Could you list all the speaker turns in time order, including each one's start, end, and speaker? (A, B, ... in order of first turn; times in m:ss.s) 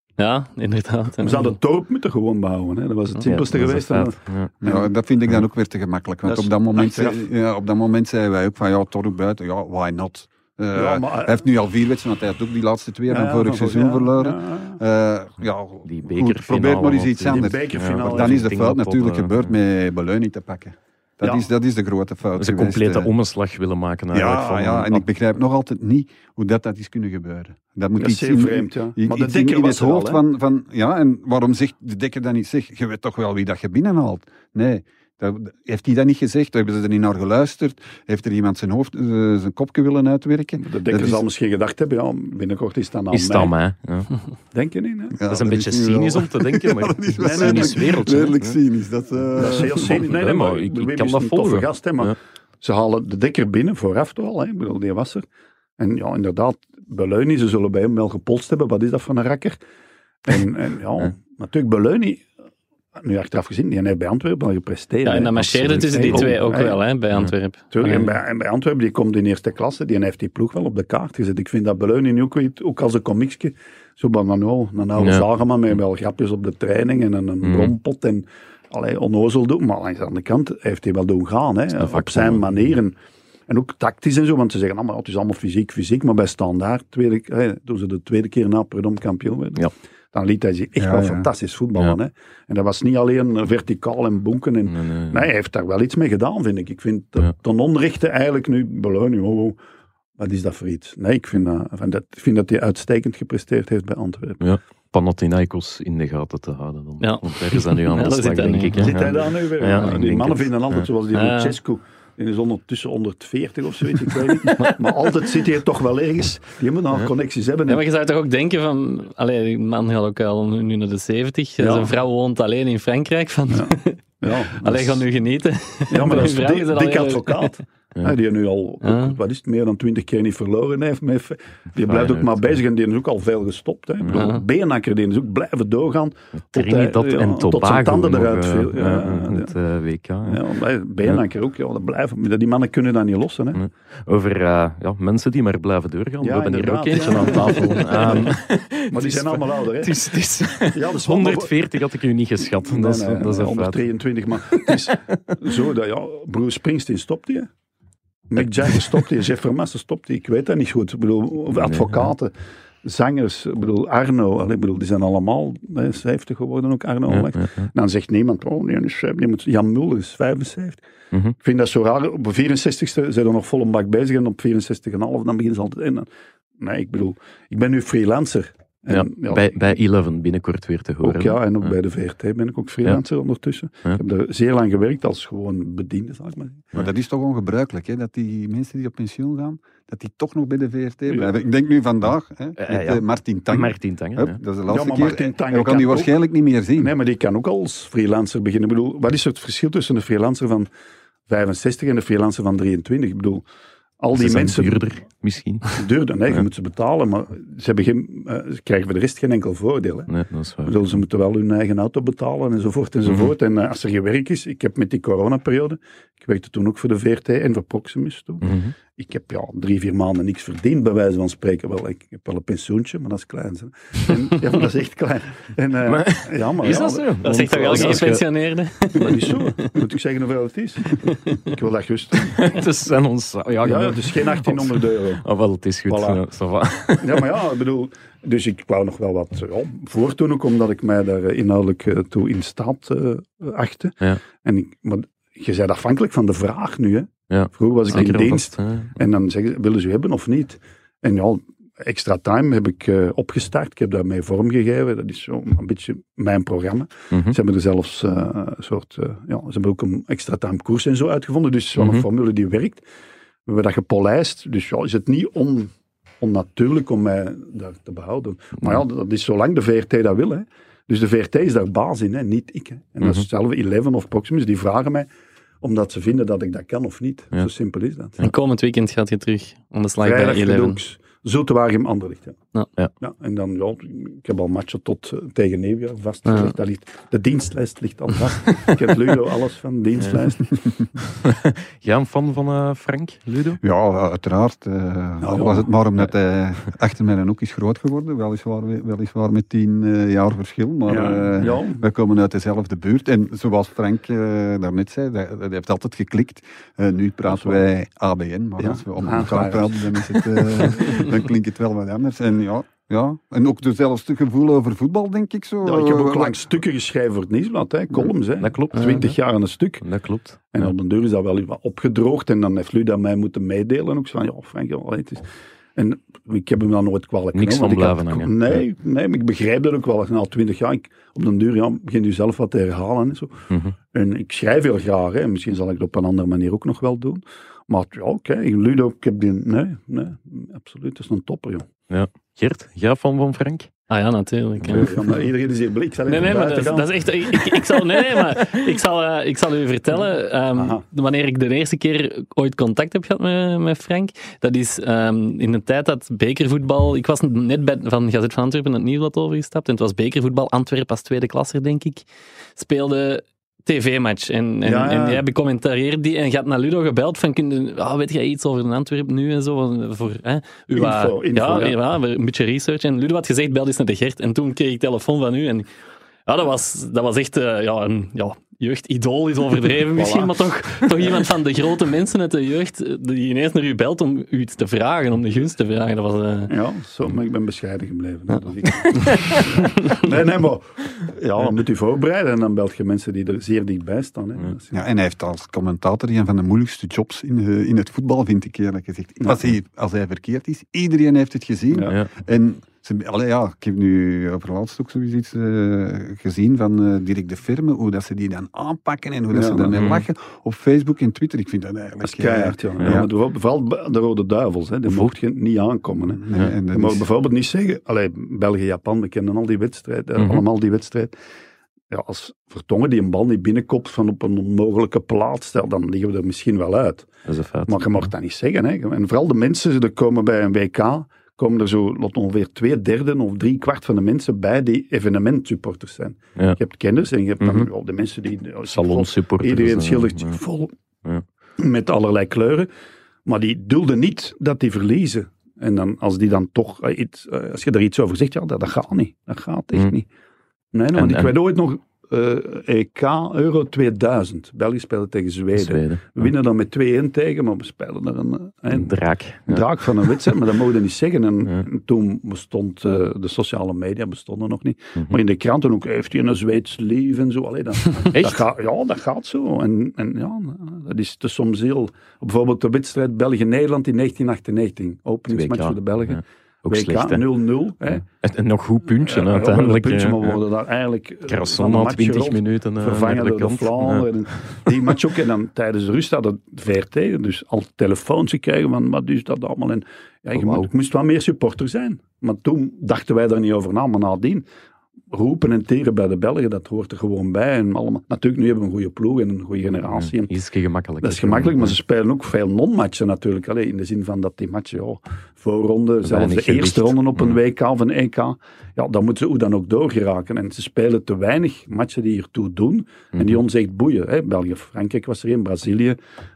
0:00.2-0:01.5 A
0:01.2-0:04.9 B
0:03.2-0:04.5 C
0:04.6-0:23.1 D
0:06.2-0:07.2 B
0:10.7-0:11.4 B
0:13.1-0:14.8 B
0:15.8-0:19.5 C
0:17.3-0:18.4 B
0:21.2-0:21.5 B
0:22.4-0:25.0 C
0:24.1-0:41.2 D
0:28.0-0:30.2 B
0:40.6-0:43.5 B
0:43.1-0:44.1 C
0:44.5-0:45.2 B
0:45.1-0:50.0 D
0:45.2-0:48.6 C
0:47.2-0:47.8 B
0:49.4-0:55.2 B
0:49.8-0:52.1 C
0:55.8-0:59.6 B
1:00.2-1:02.3 B
1:03.0-1:06.8 B
1:05.0-1:08.2 A
1:05.4-1:06.4 C
1:07.7-1:22.9 B
1:17.4-1:17.7 C
1:21.8-1:22.4 C
1:23.5-1:39.6 B
1:30.8-1:31.3 D
1:34.7-1:35.2 C
1:40.2-1:44.4 B
1:44.4-1:50.9 C
1:47.0-1:48.9 A
1:48.7-1:57.8 B
1:51.1-1:51.6 A
1:57.7-2:07.6 A
2:01.6-2:01.9 B
2:03.5-2:05.0 B
2:05.9-2:19.5 B
2:08.8-2:09.2 A
2:11.8-2:12.4 C
2:14.1-2:14.4 A
2:16.5-2:20.4 C
2:20.2-2:23.6 B
2:23.5-2:33.8 C
2:26.2-2:30.0 B
2:30.7-2:31.5 B
2:32.6-2:37.5 B
2:34.4-2:35.1 C
2:38.3-2:42.3 B
2:38.4-2:39.0 C
2:41.5-2:42.1 C
2:42.8-2:50.8 B
2:47.1-2:47.7 C
2:51.4-2:56.1 B
2:56.6-2:59.5 B
2:58.9-3:01.4 C
3:01.0-3:06.6 B
3:06.7-3:16.9 D
3:12.6-3:14.4 C
3:14.7-3:16.1 B
3:16.7-3:20.7 B
3:21.3-3:23.4 B
3:24.0-3:24.8 B
3:24.1-3:25.8 C
3:25.7-3:30.1 B
3:30.1-3:31.0 C
3:30.6-3:48.1 B
3:38.4-3:38.7 C
3:45.9-3:48.2 C
3:47.2-3:49.5 A
3:49.0-3:52.4 B
3:51.1-3:51.4 A
3:52.2-3:57.3 C
3:53.6-3:55.2 B
3:55.9-3:56.2 B
3:57.0-4:22.8 B
4:07.3-4:08.9 C
4:21.8-4:22.0 C
4:23.4-4:35.1 B
4:35.6-4:38.2 B
4:38.2-4:40.8 A
4:40.0-4:42.4 B
4:43.0-4:50.5 B
4:46.3-4:46.5 A
4:51.2-4:53.6 C
4:53.6-5:16.4 D
4:55.2-4:55.6 B
5:00.9-5:01.8 B
5:07.3-5:07.6 B
5:08.6-5:10.0 B
5:15.6-5:19.8 B
5:18.4-5:19.2 C
5:18.7-5:19.0 A
5:19.8-5:20.7 C
5:20.5-5:25.2 B
5:25.8-5:33.4 B
5:27.3-5:28.6 C
5:33.9-5:41.6 B
5:41.9-5:43.7 C
5:43.9-5:45.0 A
5:44.6-5:44.9 C
5:44.7-5:46.9 B
5:46.1-6:15.7 A
5:50.6-5:50.8 B
6:04.6-6:05.2 B
6:10.7-6:11.8 B
6:16.2-6:26.5 A
6:19.9-6:20.4 B
6:26.5-6:34.7 B
6:34.7-6:53.1 D
6:49.3-6:49.7 B
6:49.7-6:50.0 C
6:52.0-7:01.1 B
6:54.9-6:55.1 C
6:56.2-6:57.0 D
7:00.2-7:00.4 C
7:01.9-7:07.1 B
7:07.2-7:08.1 C
7:07.7-7:20.7 B
7:17.4-7:17.7 C
7:18.7-7:20.4 C
7:21.6-7:22.7 B
7:23.2-7:30.1 B
7:30.7-7:38.9 B
7:30.9-7:31.3 C
7:35.5-7:36.3 C
7:38.7-7:39.6 C
7:39.5-7:58.0 B
7:48.1-7:48.4 C
7:55.3-7:57.2 C
7:57.9-8:00.4 C
7:59.0-8:14.4 B
8:01.3-8:04.6 C
8:10.3-8:10.7 C
8:15.1-8:20.3 B
8:19.9-8:21.8 C
8:21.0-8:36.0 B
8:26.0-8:27.4 C